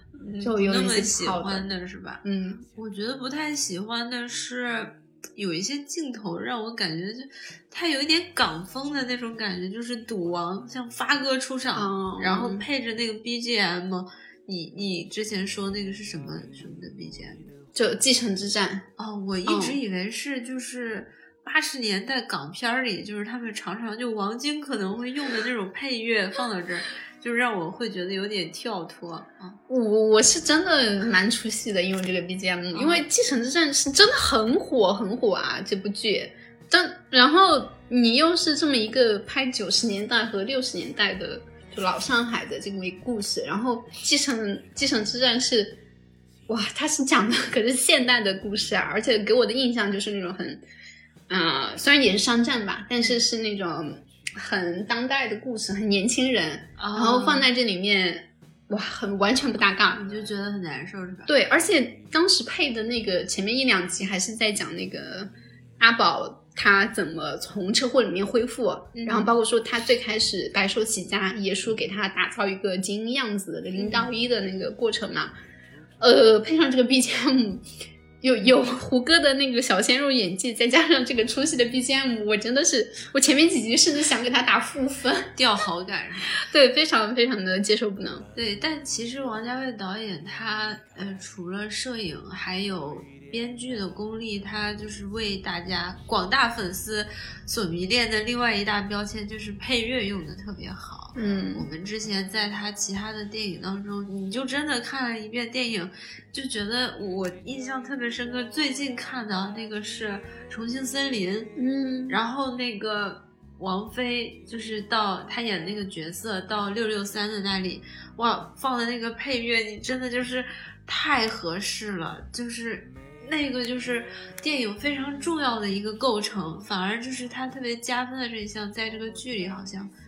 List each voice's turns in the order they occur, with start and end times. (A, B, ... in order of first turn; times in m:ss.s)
0:00.2-0:02.2 A
0:00.4-0:01.7 B
0:02.2-0:02.6 B
0:02.7-0:17.5 A
0:11.7-0:12.6 B
0:17.7-0:18.8 B
0:19.0-0:29.6 A
0:19.4-0:19.8 B
0:29.7-0:45.8 B
0:32.7-0:33.0 A
0:46.5-0:50.6 B
0:51.3-1:00.0 B
0:56.8-0:57.5 A
1:00.0-1:01.3 A
1:01.2-1:15.3 B
1:08.9-1:09.3 A
1:13.8-1:14.1 A
1:16.0-1:17.6 B
1:18.2-1:25.3 B
1:25.4-1:26.4 A
1:26.3-1:28.3 B
1:28.3-1:51.5 A
1:41.2-1:41.7 B
1:51.6-1:52.2 B
1:52.1-2:09.9 A